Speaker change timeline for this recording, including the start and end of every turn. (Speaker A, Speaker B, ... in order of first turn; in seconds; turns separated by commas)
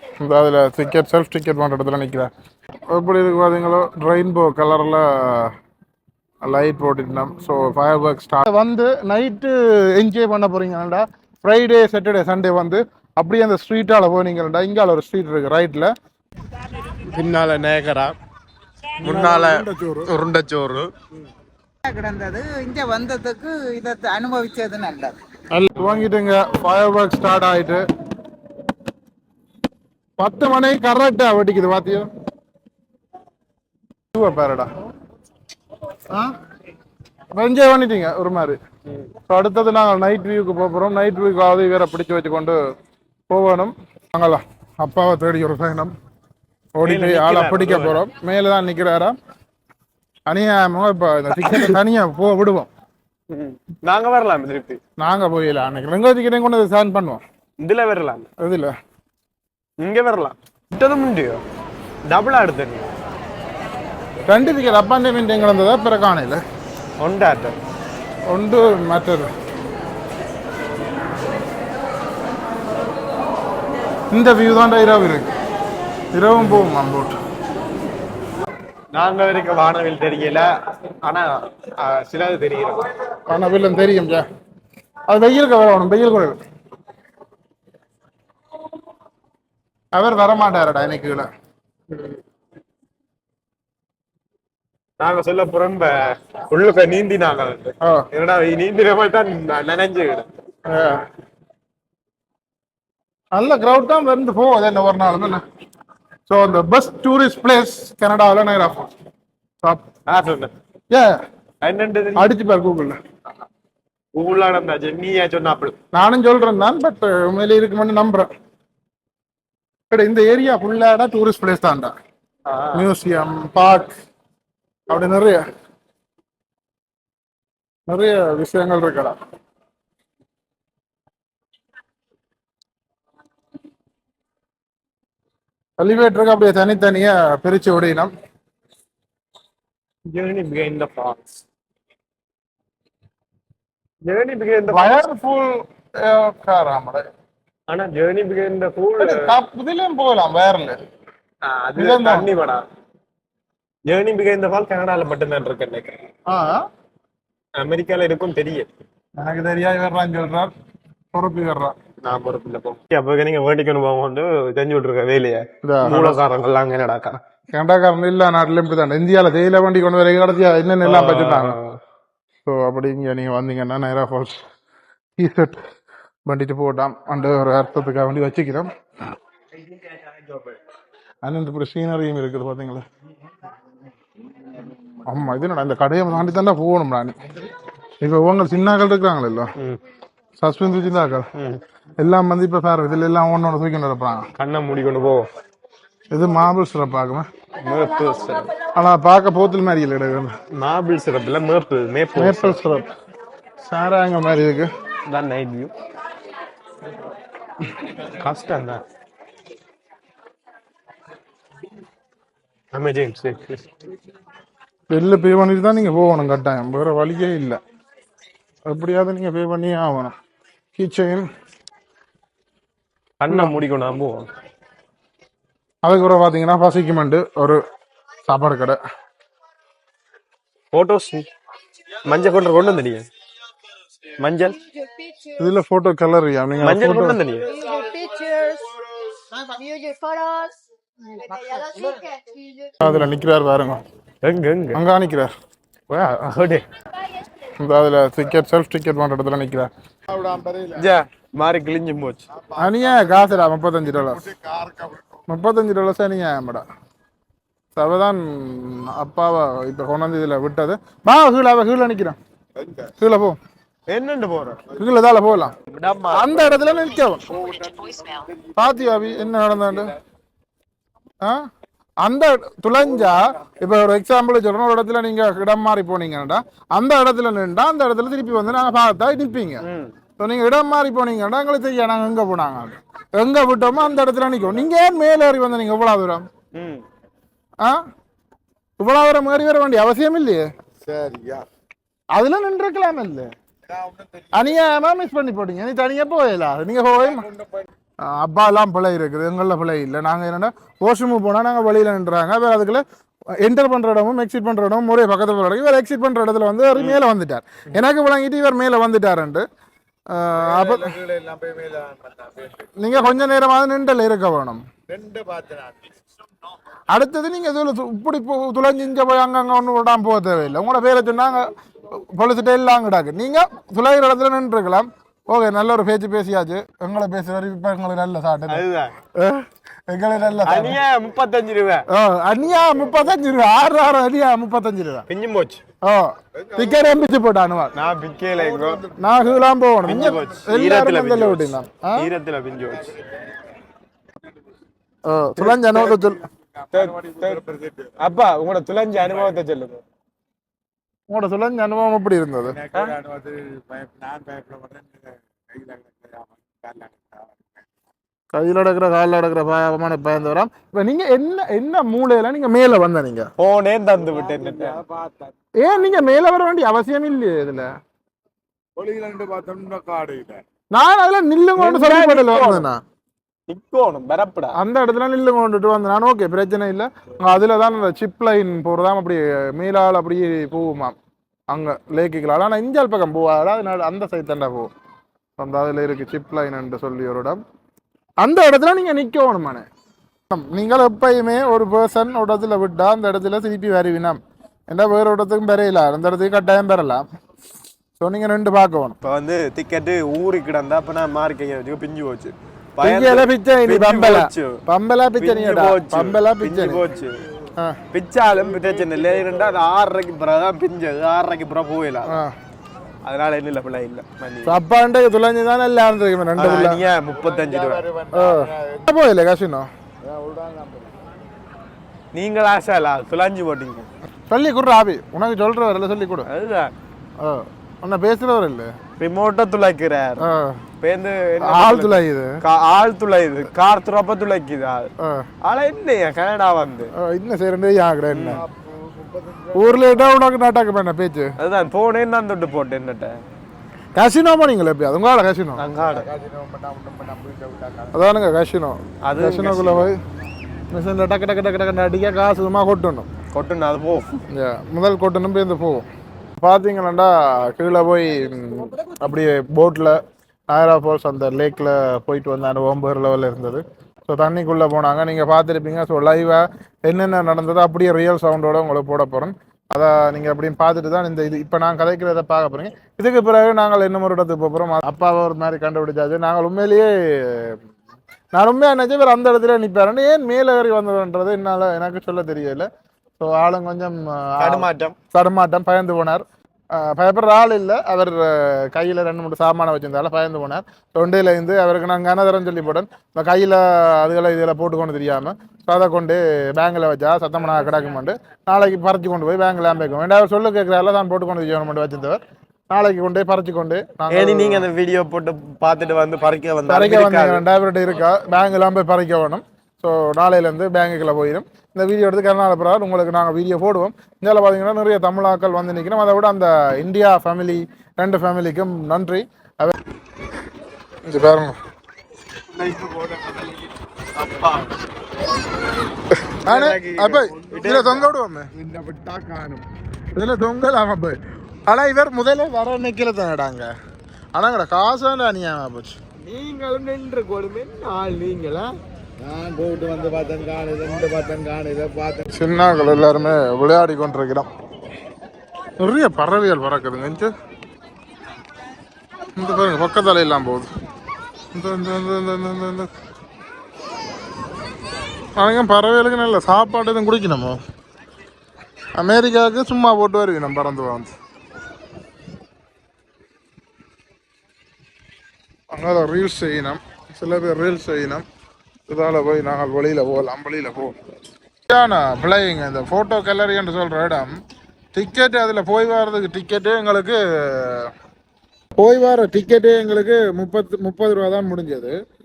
Speaker A: 0.2-2.3, Speaker A: 2.9-5.5, Speaker A: 6.4-15.9, Speaker B: 16.9-18.1, Speaker A: 19.0-20.1, Speaker B: 19.0-20.9, Speaker C: 21.8-25.1, Speaker A: 25.5-27.8, Speaker A: 30.2-32.1, Speaker A: 34.1-34.7, Speaker A: 37.3-38.6, Speaker A: 39.3-42.5, Speaker A: 43.3-45.9, Speaker A: 46.8-49.1, Speaker B: 46.8-48.0, Speaker A: 50.3-52.7, Speaker B: 51.4-51.7, Speaker B: 53.3-54.8, Speaker A: 55.0-57.2, Speaker B: 57.6-58.3, Speaker A: 58.4-58.7, Speaker B: 59.8-61.4, Speaker B: 62.1-62.9, Speaker A: 64.2-66.4, Speaker B: 67.0-67.5, Speaker A: 68.3-69.3, Speaker A: 74.1-75.3, Speaker A: 76.1-77.2, Speaker B: 76.3-76.7, Speaker B: 78.9-82.8, Speaker A: 83.3-84.2, Speaker A: 85.1-86.4, Speaker A: 89.9-91.3, Speaker B: 91.9-92.2, Speaker B: 95.0-100.2, Speaker A: 97.8-98.1, Speaker A: 100.7-101.0, Speaker A: 103.3-105.4, Speaker A: 106.3-108.9, Speaker B: 110.1-110.5, Speaker B: 111.6-112.3, Speaker A: 112.2-113.0, Speaker B: 114.1-115.7, Speaker A: 115.9-118.3, Speaker A: 119.9-121.9, Speaker B: 122.5-122.9, Speaker A: 122.7-123.9, Speaker A: 124.9-125.4, Speaker A: 127.9-129.1, Speaker A: 135.8-138.1, Speaker B: 140.1-141.4, Speaker B: 144.0-145.1, Speaker A: 144.7-147.0, Speaker B: 147.7-149.3, Speaker A: 149.0-150.8, Speaker B: 151.4-152.6, Speaker A: 151.8-152.3, Speaker B: 153.9-156.0, Speaker A: 156.3-156.6, Speaker B: 157.6-158.7, Speaker A: 159.2-160.5, Speaker A: 161.1-161.7, Speaker B: 162.0-167.2, Speaker A: 165.6-166.2, Speaker A: 167.5-171.6, Speaker B: 170.8-171.8, Speaker A: 172.4-174.4, Speaker A: 175.2-175.6, Speaker A: 176.3-178.7, Speaker A: 181.2-182.8, Speaker A: 185.1-187.1, Speaker A: 188.0-189.5, Speaker A: 190.4-191.3, Speaker B: 191.3-191.6, Speaker A: 192.0-194.2, Speaker B: 194.3-195.2, Speaker A: 196.1-197.2, Speaker B: 197.6-198.5, Speaker A: 198.7-200.3, Speaker B: 200.5-202.6, Speaker A: 202.2-202.8, Speaker A: 203.7-204.7, Speaker B: 205.1-205.7, Speaker B: 208.0-208.8, Speaker B: 212.7-213.6, Speaker A: 214.9-217.6, Speaker A: 218.7-220.1, Speaker A: 220.8-221.2, Speaker B: 223.2-224.3, Speaker A: 223.3-223.5, Speaker A: 225.8-227.6, Speaker A: 228.2-228.8, Speaker B: 230.7-231.2, Speaker B: 232.0-233.1, Speaker B: 234.2-234.6, Speaker D: 234.7-235.1, Speaker A: 235.3-237.2, Speaker B: 236.6-237.6, Speaker D: 237.6-238.7, Speaker D: 239.3-240.5, Speaker D: 241.2-242.7, Speaker A: 242.8-243.8, Speaker B: 244.2-244.8, Speaker A: 244.7-245.3, Speaker B: 245.9-246.6, Speaker A: 247.6-249.7, Speaker E: 250.1-250.7, Speaker B: 250.7-252.2, Speaker A: 252.6-254.3, Speaker E: 252.9-253.3, Speaker E: 254.4-255.0, Speaker A: 255.3-256.6, Speaker A: 257.8-262.2, Speaker A: 263.0-263.4, Speaker B: 263.9-264.6, Speaker A: 264.8-265.5, Speaker B: 265.6-266.7, Speaker A: 266.1-267.4, Speaker A: 268.6-269.9, Speaker A: 272.0-279.6, Speaker B: 279.6-279.9, Speaker A: 280.2-286.2, Speaker B: 286.5-286.8, Speaker A: 288.8-290.4, Speaker B: 290.8-291.4, Speaker A: 292.1-293.3, Speaker A: 294.3-297.2, Speaker B: 297.2-297.5, Speaker A: 298.0-302.8, Speaker A: 303.4-309.4, Speaker B: 306.7-307.0, Speaker A: 310.1-311.0, Speaker B: 310.8-312.5, Speaker A: 312.8-314.6, Speaker B: 314.9-315.6, Speaker E: 315.1-315.7, Speaker A: 316.9-328.6, Speaker B: 328.5-328.9, Speaker A: 329.1-330.8, Speaker B: 330.4-331.8, Speaker A: 331.9-335.1, Speaker B: 335.1-335.6, Speaker A: 335.8-337.7, Speaker B: 337.7-338.9, Speaker A: 338.9-342.1, Speaker B: 339.8-343.0, Speaker A: 345.1-346.3, Speaker B: 345.4-346.1, Speaker E: 346.6-347.9, Speaker B: 346.7-347.5, Speaker B: 348.0-349.8, Speaker A: 351.1-352.6, Speaker B: 352.7-353.0, Speaker E: 352.7-356.9, Speaker A: 358.3-363.3, Speaker B: 363.4-364.8, Speaker E: 364.6-365.3, Speaker A: 365.6-367.7, Speaker E: 368.8-370.4, Speaker A: 370.7-372.8, Speaker B: 371.6-372.7, Speaker B: 373.5-374.6, Speaker A: 374.6-380.9, Speaker A: 381.5-384.7, Speaker A: 385.4-387.4, Speaker A: 388.2-389.6, Speaker A: 390.3-394.2, Speaker A: 394.7-397.0, Speaker A: 398.0-399.0, Speaker B: 399.0-404.6, Speaker A: 402.8-406.8, Speaker B: 405.2-407.2, Speaker B: 407.9-412.2, Speaker A: 412.1-412.3, Speaker B: 413.0-414.6, Speaker A: 414.4-416.8, Speaker B: 416.4-417.9, Speaker E: 417.2-418.1, Speaker A: 418.1-419.7, Speaker E: 420.0-420.9, Speaker B: 422.1-423.9, Speaker A: 424.3-426.3, Speaker B: 426.3-426.7, Speaker A: 427.2-428.7, Speaker B: 429.0-430.2, Speaker A: 430.2-430.6, Speaker B: 430.8-434.9, Speaker A: 431.4-432.4, Speaker A: 435.0-435.2, Speaker B: 435.4-436.9, Speaker A: 436.9-438.4, Speaker B: 438.1-438.5, Speaker E: 438.5-439.9, Speaker A: 439.5-441.3, Speaker B: 441.4-443.1, Speaker A: 443.9-445.6, Speaker B: 445.6-446.1, Speaker E: 446.0-447.9, Speaker A: 447.9-450.0, Speaker B: 449.0-449.9, Speaker A: 450.7-453.1, Speaker B: 453.3-454.1, Speaker A: 454.3-455.8, Speaker A: 456.4-460.0, Speaker C: 458.4-459.0, Speaker A: 460.5-477.6, Speaker A: 478.3-482.7, Speaker A: 483.2-504.6, Speaker B: 484.4-484.9, Speaker B: 504.1-507.4, Speaker A: 506.7-519.8, Speaker A: 521.0-521.5, Speaker B: 522.5-524.8, Speaker A: 526.2-528.5, Speaker B: 526.4-528.1, Speaker E: 529.1-529.6, Speaker A: 530.1-533.7, Speaker A: 534.3-536.0, Speaker B: 536.2-538.7, Speaker E: 539.2-542.2, Speaker A: 542.3-544.5, Speaker A: 545.8-547.3, Speaker A: 549.4-550.7, Speaker A: 551.5-552.9, Speaker A: 555.4-557.6, Speaker A: 559.0-561.1, Speaker A: 565.7-568.2, Speaker A: 568.9-570.9, Speaker A: 571.7-574.3, Speaker A: 574.9-577.9, Speaker A: 578.8-581.9